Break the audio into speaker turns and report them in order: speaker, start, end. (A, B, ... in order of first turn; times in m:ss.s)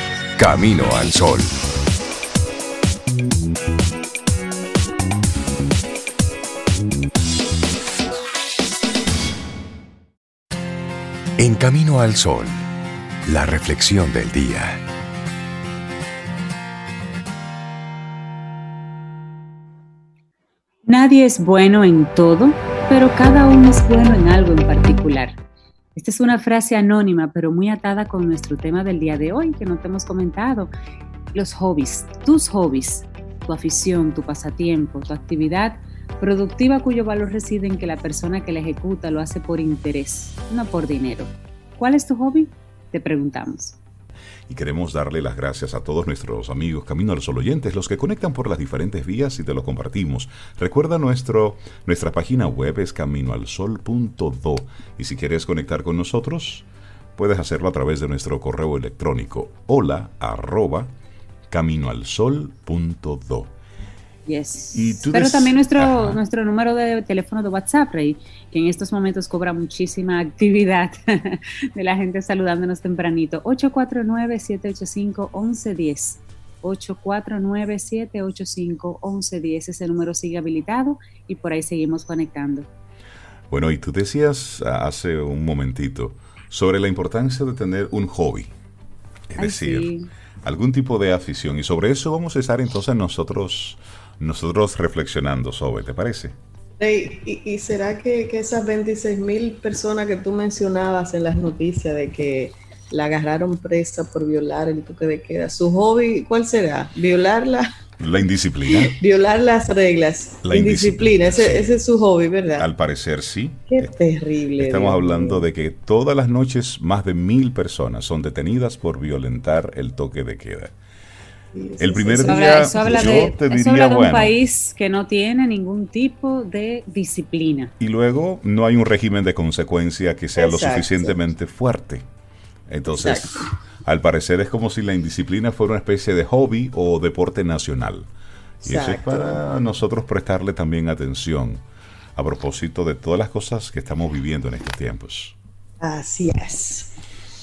0:00.4-0:01.5 A
0:11.4-0:12.6 A
0:13.2-0:14.8 A
0:20.8-0:25.4 B
0:25.9-0:30.7 B
0:31.3-0:43.8 B
0:44.5-1:00.9 C
1:01.5-1:03.5 C
1:04.3-1:22.7 B
1:04.7-1:06.2 C
1:23.5-1:28.5 C
1:29.3-1:29.9 C
1:29.4-1:30.1 B
1:30.4-1:36.3 C
1:36.8-1:47.7 D
1:48.0-1:49.0 C
1:48.7-1:52.7 D
1:50.4-1:51.8 C
1:52.6-1:53.9 C
1:53.7-1:55.5 D
1:54.6-2:00.7 C
2:01.5-2:03.3 D
2:01.8-2:04.3 C
2:02.2-2:07.7 B
2:07.8-2:12.0 C
2:10.4-2:11.2 D
2:12.7-2:18.1 C
2:12.9-2:13.5 D
2:18.6-2:19.4 D
2:18.6-2:21.6 C
2:22.2-2:25.4 C
2:25.8-2:26.9 D